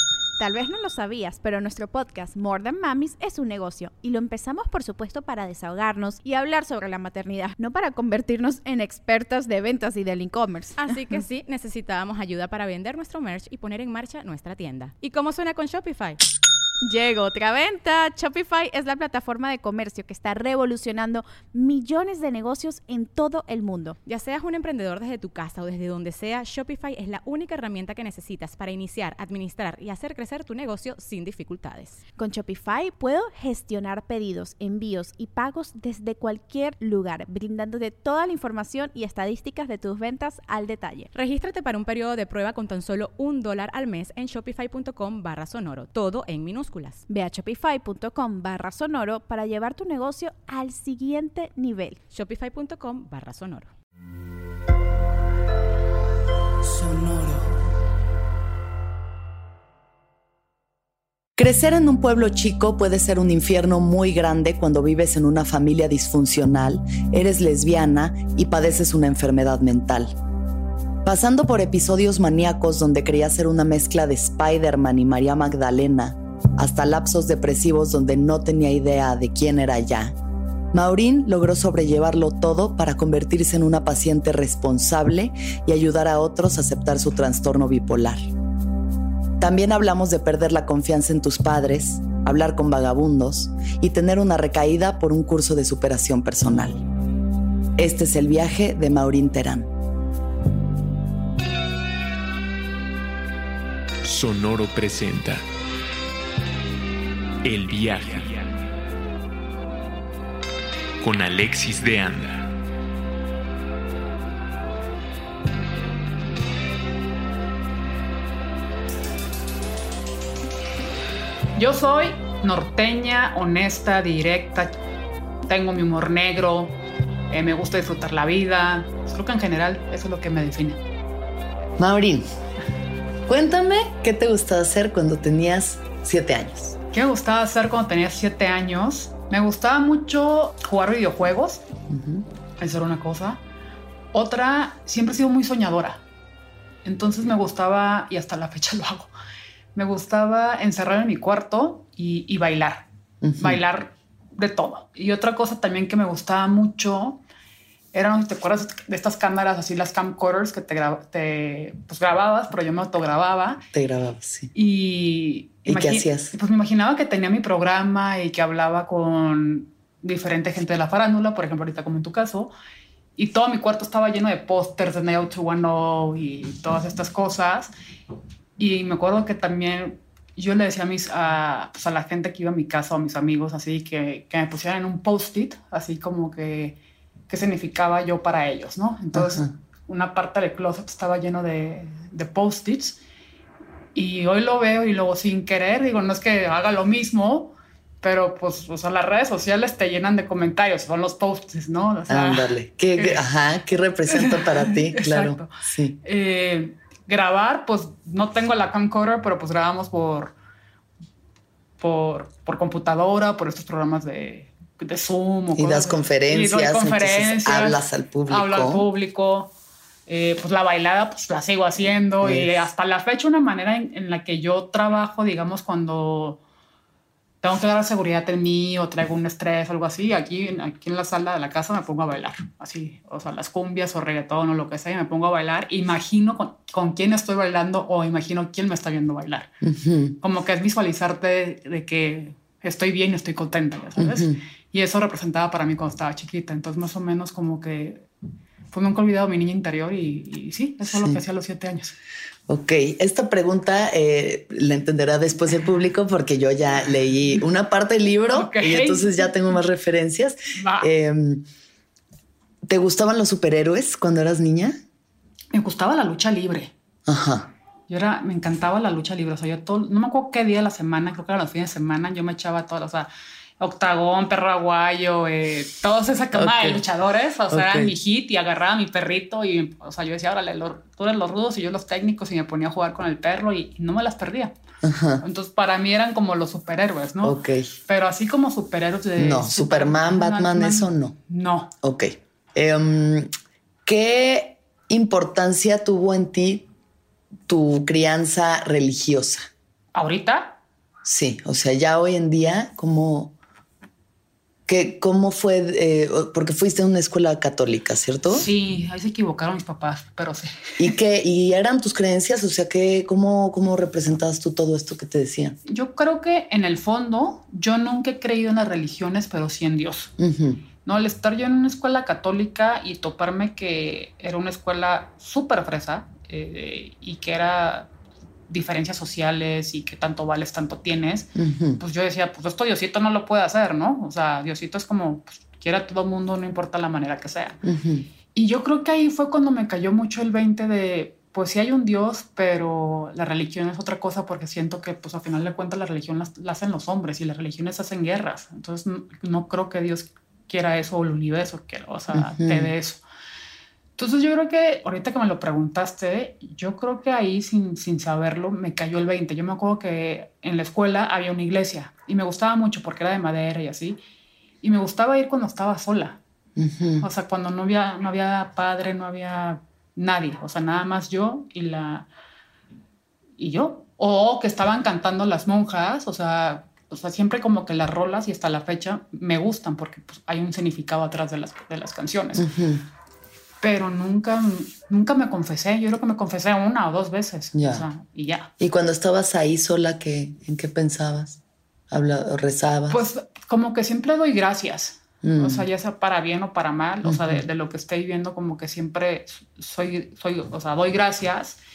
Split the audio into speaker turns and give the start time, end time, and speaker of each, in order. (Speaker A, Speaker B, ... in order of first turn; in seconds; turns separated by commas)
Speaker A: 0.4-11.2, Speaker B: 10.8-16.2, Speaker A: 16.8-24.0, Speaker B: 24.1-32.0, Speaker A: 32.2-41.1, Speaker B: 41.1-47.0, Speaker A: 47.1-52.0, Speaker B: 52.1-53.7, Speaker C: 56.8-57.2, Speaker D: 61.4-70.1, Speaker D: 71.0-80.1, Speaker D: 80.7-88.3, Speaker D: 89.4-96.8, Speaker D: 97.8-99.7, Speaker C: 104.0-105.4, Speaker C: 107.4-108.4, Speaker C: 111.0-112.5, Speaker E: 121.5-124.7, Speaker E: 125.5-126.8, Speaker E: 127.3-130.8, Speaker D: 131.8-132.3, Speaker D: 133.3-136.8, Speaker E: 136.9-141.6, Speaker D: 141.9-142.2, Speaker E: 142.6-143.4, Speaker E: 144.1-146.0, Speaker E: 146.8-149.1, Speaker E: 149.8-152.9, Speaker D: 153.2-153.6, Speaker E: 153.4-157.2, Speaker E: 157.9-163.6, Speaker D: 163.7-164.5, Speaker E: 164.5-172.5, Speaker D: 165.7-166.3, Speaker E: 173.2-177.7, Speaker E: 178.6-186.8, Speaker E: 187.3-193.0, Speaker D: 189.1-189.5, Speaker E: 193.9-203.2, Speaker D: 202.1-206.0, Speaker E: 204.1-205.5, Speaker E: 206.0-210.3, Speaker E: 211.8-219.5, Speaker D: 215.6-218.9, Speaker E: 220.1-226.4, Speaker D: 222.2-222.5, Speaker E: 227.4-239.5, Speaker D: 239.6-240.2, Speaker E: 240.2-248.1, Speaker D: 244.0-244.4, Speaker E: 248.7-251.9, Speaker D: 250.8-251.2, Speaker D: 252.5-261.4, Speaker E: 258.3-259.6, Speaker E: 260.5-260.9, Speaker D: 262.6-264.8, Speaker E: 265.5-266.7, Speaker D: 267.1-267.5, Speaker E: 267.9-273.1, Speaker E: 273.6-284.5, Speaker D: 276.3-276.8, Speaker D: 277.5-277.9, Speaker D: 284.8-285.2, Speaker E: 285.2-291.7, Speaker D: 287.2-287.7, Speaker D: 289.2-291.1, Speaker D: 291.8-293.3, Speaker D: 293.9-296.6, Speaker D: 297.5-299.5, Speaker E: 299.9-300.6, Speaker D: 301.0-303.3, Speaker D: 304.7-308.5, Speaker E: 308.3-310.9, Speaker D: 310.8-315.6, Speaker E: 315.7-320.1, Speaker D: 320.2-320.6, Speaker E: 320.8-327.9, Speaker E: 328.5-337.6, Speaker D: 331.4-331.8, Speaker D: 337.6-338.1, Speaker E: 338.3-353.0, Speaker D: 352.1-352.7, Speaker E: 354.0-364.0, Speaker E: 364.6-366.2, Speaker D: 366.6-367.1, Speaker E: 367.0-372.1, Speaker E: 373.4-382.4, Speaker D: 382.3-382.8, Speaker E: 383.6-388.5, Speaker D: 387.5-387.9, Speaker D: 388.6-391.4, Speaker D: 391.9-393.0, Speaker E: 392.9-401.6, Speaker D: 395.2-395.7, Speaker D: 397.0-397.4